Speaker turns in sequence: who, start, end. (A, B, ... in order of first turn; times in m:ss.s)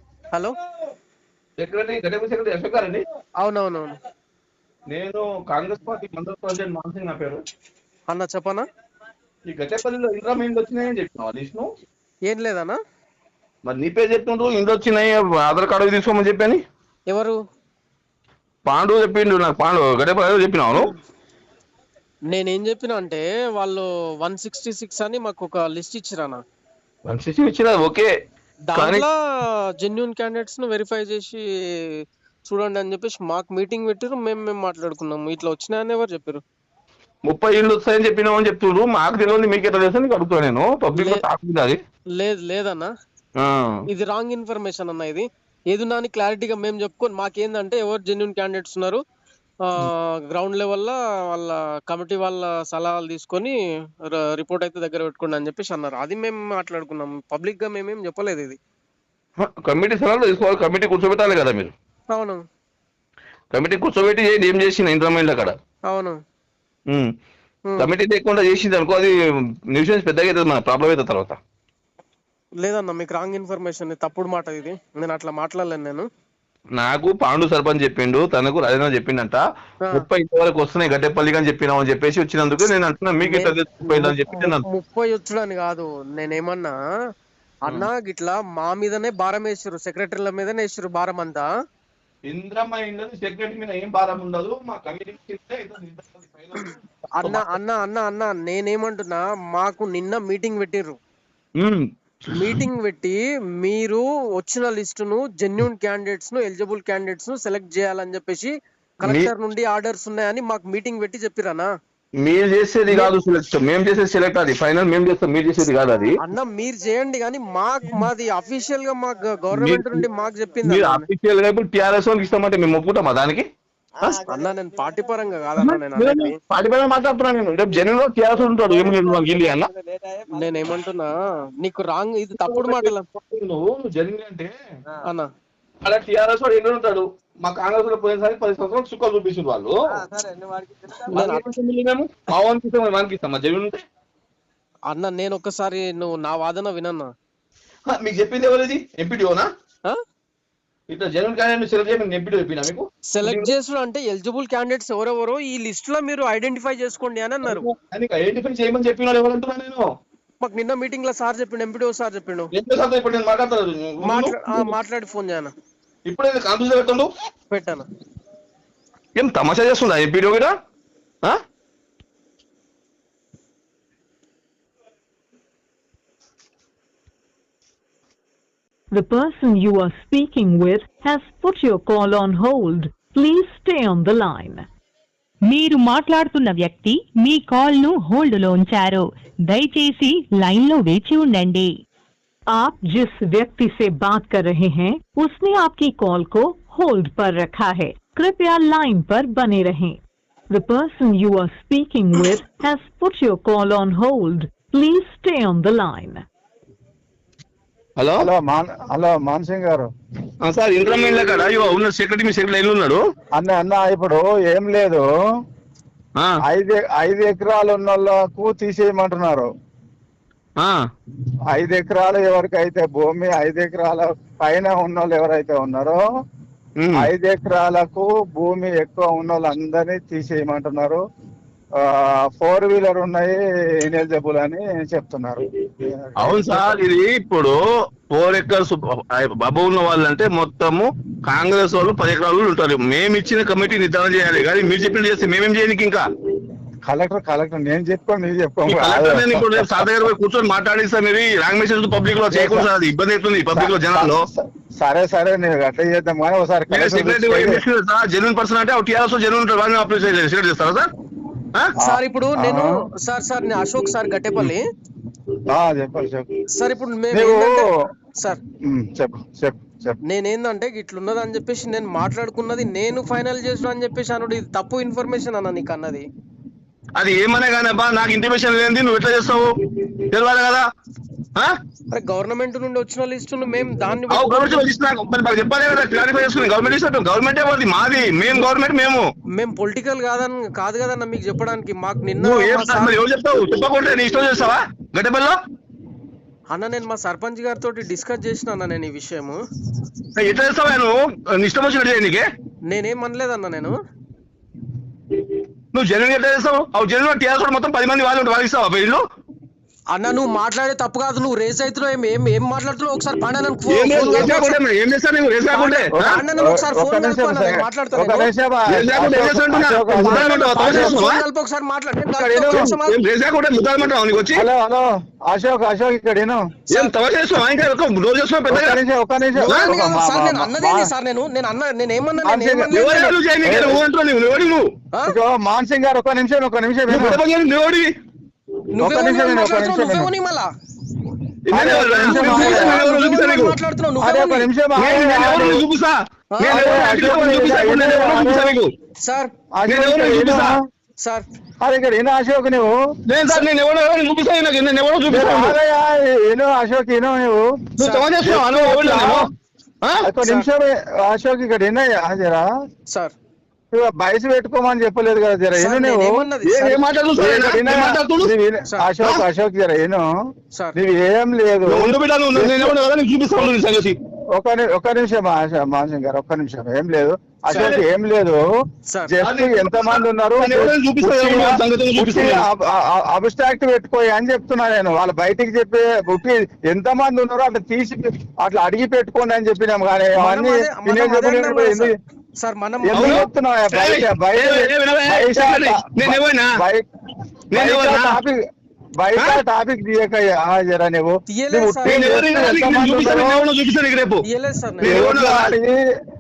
0:01.6-0:03.0 A
0:03.4-0:03.9 B
0:04.9-0:07.4 A
0:08.1-0:08.7 B
0:09.5-0:11.7 A
0:12.3-0:12.8 B
0:13.7-0:16.6 A
0:17.1-0:17.4 B
0:18.7-0:20.9 A
0:22.3-0:26.4 B
0:27.0-0:28.1 A
0:28.7-0:29.1 B
0:28.8-0:29.0 A
0:29.8-0:31.4 B
0:32.5-0:36.4 B
0:37.3-0:41.8 A
0:40.9-0:41.2 B
0:42.2-0:42.9 B
0:43.4-0:43.8 A
0:43.9-0:49.0 B
0:49.6-0:58.6 B
0:59.4-1:01.7 A
1:02.1-1:02.4 B
1:03.5-1:05.6 A
1:05.9-1:06.2 B
1:07.8-1:09.1 A
1:09.7-1:11.4 A
1:12.6-1:16.1 B
1:16.8-1:19.4 A
1:19.9-1:24.6 A
1:23.2-1:26.8 B
1:27.7-1:31.5 B
1:32.2-1:37.5 A
1:36.6-1:41.0 B
1:41.6-1:42.6 A
1:42.3-1:51.7 B
1:49.0-1:49.3 A
1:52.2-1:56.1 A
1:56.2-2:01.1 B
1:59.5-2:00.0 A
2:00.6-2:03.5 A
2:04.2-2:06.4 B
2:05.6-2:09.7 A
2:10.3-2:13.1 B
2:12.4-2:14.5 A
2:15.8-2:19.8 A
2:21.1-2:23.8 A
2:21.1-2:21.5 B
2:24.9-2:27.1 B
2:27.9-2:29.5 A
2:30.9-2:33.5 A
2:33.1-2:37.7 B
2:37.4-2:39.9 A
2:40.4-2:42.5 B
2:42.5-2:44.7 A
2:44.0-2:45.5 B
2:46.1-2:47.1 A
2:47.5-2:47.9 B
2:49.2-2:50.5 A
2:58.9-3:04.7 C
3:05.5-3:11.8 D
3:12.5-3:26.2 C
3:28.0-3:28.3 A
3:28.2-3:29.9 E
3:30.4-3:33.0 A
3:33.4-3:35.0 E
3:36.4-3:39.5 E
3:41.5-3:46.0 E
3:46.8-3:47.1 A
3:47.0-3:51.0 E
3:51.8-3:56.8 E
3:56.2-3:57.6 A
3:58.1-4:06.0 A
4:06.9-4:09.8 E
4:08.7-4:14.2 A
4:12.3-4:12.7 E
4:13.5-4:17.6 E
4:16.7-4:20.9 A
4:21.8-4:22.7 E
4:21.8-4:24.6 B
4:25.5-4:26.3 E
4:26.5-4:27.7 B
4:27.1-4:27.7 E
4:28.7-4:30.0 E
4:30.1-4:36.1 B
4:37.0-4:40.6 A
4:41.9-4:44.7 B
4:44.1-4:49.1 A
4:49.4-4:53.0 B
4:52.2-4:55.4 A
4:56.5-4:59.4 B
5:00.1-5:02.2 A
5:02.7-5:03.7 B
5:05.7-5:09.0 A
5:09.9-5:14.6 B
5:13.7-5:16.2 A
5:14.0-5:14.3 E
5:15.5-5:18.3 B
5:15.9-5:21.1 E
5:18.7-5:21.2 A
5:20.0-5:23.0 B
5:22.1-5:22.7 E
5:22.5-5:24.5 A
5:24.3-5:26.4 E
5:26.7-5:28.8 A
5:28.5-5:30.9 E
5:29.4-5:33.1 B
5:29.5-5:29.8 A
5:32.2-5:32.8 E
5:32.7-5:34.7 A
5:33.4-5:33.8 E
5:35.1-5:37.2 E
5:36.9-5:37.9 A
5:38.8-5:40.5 B
5:38.8-5:40.1 E
5:41.4-5:43.6 A
5:41.5-5:42.8 E
5:42.0-5:44.5 B
5:44.0-5:45.6 E
5:44.8-5:48.7 A
5:46.3-5:46.7 B
5:46.5-5:48.6 E
5:49.0-5:49.3 B
5:49.6-5:50.6 E
5:49.7-5:50.6 A
5:51.6-5:52.8 E
5:53.1-5:55.6 A
5:55.1-5:57.4 E
5:57.8-5:59.2 A
5:57.8-5:58.1 B
5:58.2-5:59.3 E
6:00.0-6:02.4 E
6:03.7-6:06.2 E
6:05.6-6:06.8 B
6:06.4-6:08.3 A
6:07.2-6:10.0 E
6:10.8-6:12.8 E
6:11.6-6:14.0 A
6:14.4-6:18.4 E
6:17.5-6:17.8 A
6:19.1-6:31.9 E
6:19.2-6:22.4 A
6:30.2-6:33.2 B
6:32.8-6:36.8 E
6:32.9-6:36.5 A
6:37.5-6:38.2 A
6:37.5-6:38.4 E
6:39.0-6:43.5 E
6:39.2-6:39.4 A
6:41.3-6:42.2 B
6:41.8-6:44.2 A
6:44.3-6:45.1 B
6:44.8-6:45.5 A
6:44.8-6:45.8 E